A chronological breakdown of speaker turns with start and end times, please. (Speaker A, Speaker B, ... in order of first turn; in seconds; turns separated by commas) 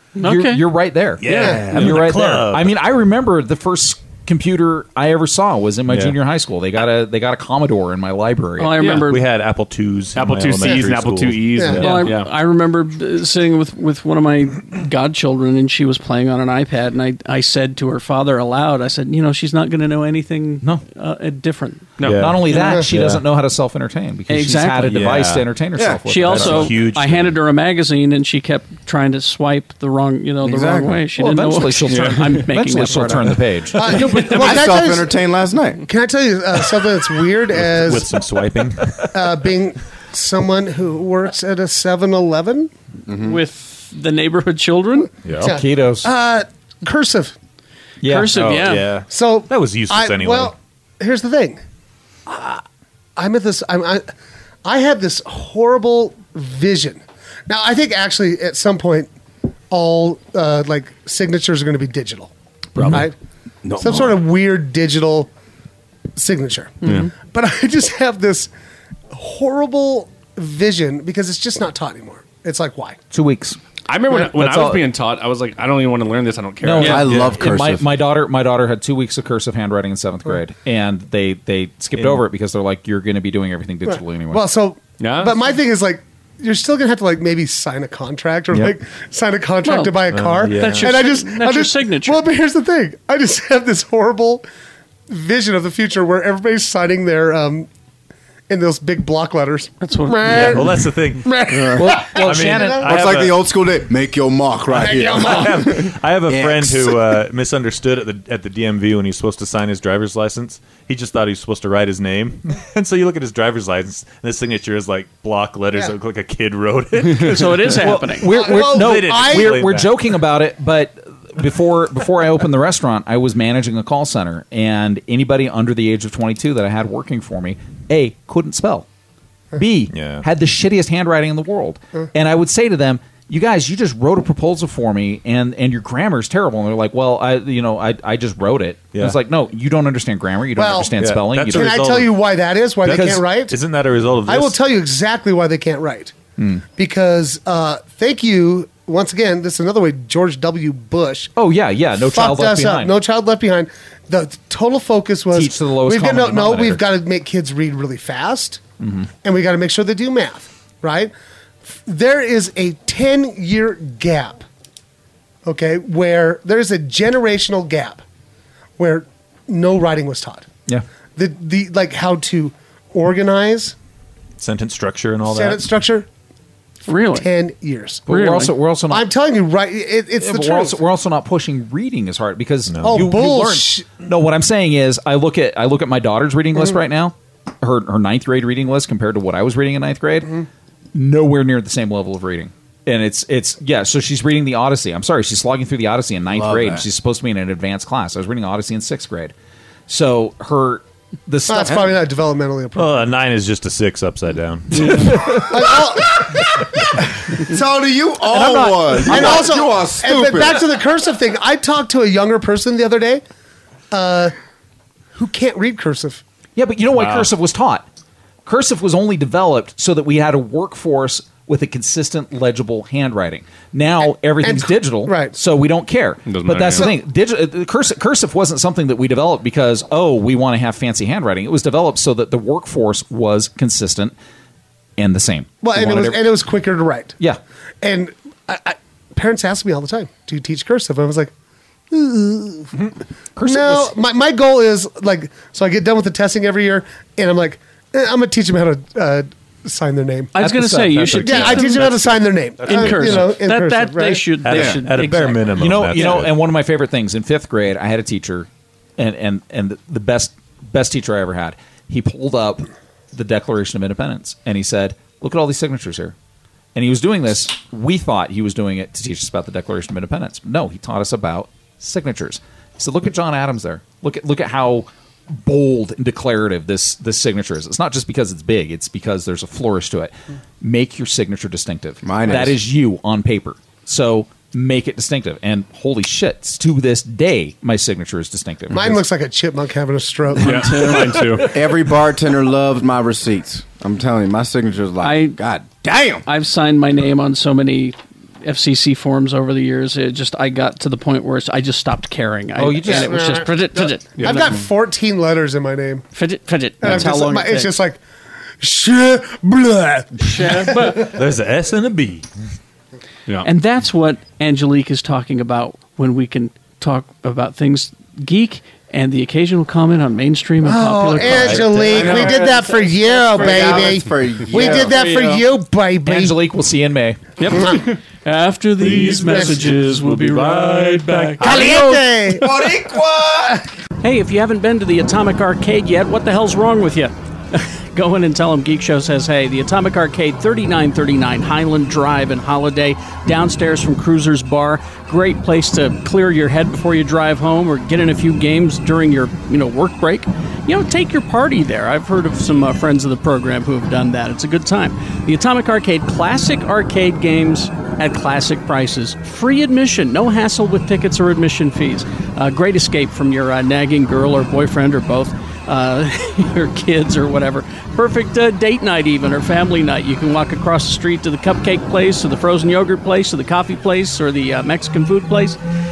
Speaker A: 0.2-0.7, Speaker B: 0.2-8.9, Speaker C: 1.2-2.7, Speaker D: 1.3-1.8, Speaker E: 1.4-2.0, Speaker A: 8.6-9.2, Speaker E: 8.8-9.2, Speaker C: 8.9-12.1, Speaker E: 10.2-12.3, Speaker A: 11.8-21.9, Speaker E: 22.0-22.4, Speaker C: 22.0-23.2, Speaker B: 22.1-26.8, Speaker A: 22.5-22.8, Speaker D: 22.6-22.9, Speaker A: 24.3-25.0, Speaker C: 24.9-25.5, Speaker A: 26.1-33.4, Speaker C: 26.2-27.4, Speaker F: 30.4-31.0, Speaker B: 31.2-33.8, Speaker E: 31.9-32.4, Speaker D: 33.8-35.2, Speaker E: 33.8-34.5, Speaker F: 34.1-35.8, Speaker D: 35.9-38.1, Speaker C: 37.5-39.0, Speaker D: 39.1-42.7, Speaker F: 43.1-43.4, Speaker A: 43.2-45.1, Speaker C: 45.2-45.5, Speaker B: 45.4-46.1, Speaker D: 45.4-47.4, Speaker B: 48.0-48.4, Speaker A: 48.0-48.9, Speaker C: 48.3-50.5, Speaker D: 49.1-51.6, Speaker D: 52.3-52.6, Speaker D: 53.2-54.1, Speaker D: 54.6-59.1, Speaker D: 59.7-63.1, Speaker E: 62.8-63.1, Speaker F: 63.7-64.0, Speaker D: 63.8-65.3, Speaker D: 66.2-68.5, Speaker A: 66.8-67.1, Speaker D: 69.1-73.0, Speaker B: 73.1-74.9, Speaker E: 73.9-77.0, Speaker B: 76.6-84.5, Speaker F: 76.8-77.9, Speaker C: 77.1-77.3, Speaker D: 83.9-94.5, Speaker E: 85.0-85.5, Speaker A: 89.7-92.2, Speaker C: 90.1-91.0, Speaker D: 95.1-97.7, Speaker D: 98.5-102.9, Speaker A: 99.8-100.7, Speaker C: 100.3-101.3, Speaker F: 101.5-102.0, Speaker B: 101.6-102.9, Speaker C: 102.1-103.4, Speaker F: 102.8-107.0, Speaker D: 104.7-105.9, Speaker C: 105.1-119.9, Speaker A: 117.1-118.3, Speaker B: 117.8-128.9, Speaker D: 118.3-119.7, Speaker B: 129.6-141.9, Speaker C: 129.9-130.2, Speaker D: 140.6-143.6, Speaker C: 141.0-142.2, Speaker C: 142.8-144.6, Speaker B: 142.9-143.2, Speaker D: 144.3-146.2, Speaker D: 146.8-151.3, Speaker B: 151.4-152.9, Speaker D: 152.0-158.6, Speaker B: 155.3-156.8, Speaker B: 158.8-159.1, Speaker D: 159.2-161.1, Speaker D: 161.7-164.4, Speaker D: 165.4-168.0, Speaker D: 168.8-170.5, Speaker D: 171.2-173.8, Speaker C: 174.4-175.6, Speaker D: 175.2-176.1, Speaker A: 176.9-177.3, Speaker D: 177.1-178.1, Speaker B: 178.1-179.1, Speaker A: 178.1-178.6, Speaker D: 178.9-180.8, Speaker B: 180.2-190.4, Speaker C: 182.7-183.0, Speaker D: 182.8-183.9, Speaker B: 190.9-199.3, Speaker F: 196.3-196.8, Speaker B: 199.9-201.9, Speaker D: 201.5-203.1, Speaker C: 202.8-205.4, Speaker D: 205.3-206.4, Speaker F: 207.4-210.7, Speaker D: 208.3-213.2, Speaker D: 213.9-214.3, Speaker D: 215.2-216.2, Speaker B: 216.6-217.8, Speaker E: 217.0-217.3, Speaker B: 218.5-234.2, Speaker D: 224.4-225.3, Speaker E: 226.2-226.9, Speaker B: 235.0-236.2, Speaker D: 235.6-237.2, Speaker D: 237.8-241.3, Speaker D: 241.9-242.9, Speaker B: 243.4-243.9, Speaker D: 243.4-250.3, Speaker A: 250.3-256.2, Speaker B: 250.4-251.9, Speaker D: 251.2-254.3, Speaker C: 252.6-253.2, Speaker C: 254.4-256.3, Speaker F: 254.5-254.8, Speaker B: 255.6-266.1, Speaker B: 266.8-274.9, Speaker B: 275.4-289.0, Speaker F: 282.0-282.6, Speaker D: 288.7-291.0, Speaker E: 290.4-291.5, Speaker A: 290.6-291.2, Speaker F: 291.4-296.2, Speaker A: 295.0-295.4, Speaker A: 296.2-304.5, Speaker B: 302.6-303.5, Speaker D: 302.8-306.1, Speaker E: 304.2-304.5, Speaker A: 306.1-307.8, Speaker D: 306.8-308.0, Speaker D: 308.6-311.1, Speaker A: 310.2-311.1, Speaker C: 310.9-312.3, Speaker A: 313.4-322.6, Speaker D: 320.6-326.4, Speaker C: 321.3-322.0, Speaker E: 322.0-322.4, Speaker F: 322.0-322.4, Speaker F: 323.1-325.0, Speaker A: 323.4-323.8, Speaker A: 324.6-325.4, Speaker B: 326.1-327.2, Speaker A: 327.4-331.7, Speaker D: 329.3-329.6, Speaker C: 330.1-331.6, Speaker D: 331.4-332.7, Speaker F: 331.5-333.6, Speaker A: 334.0-375.6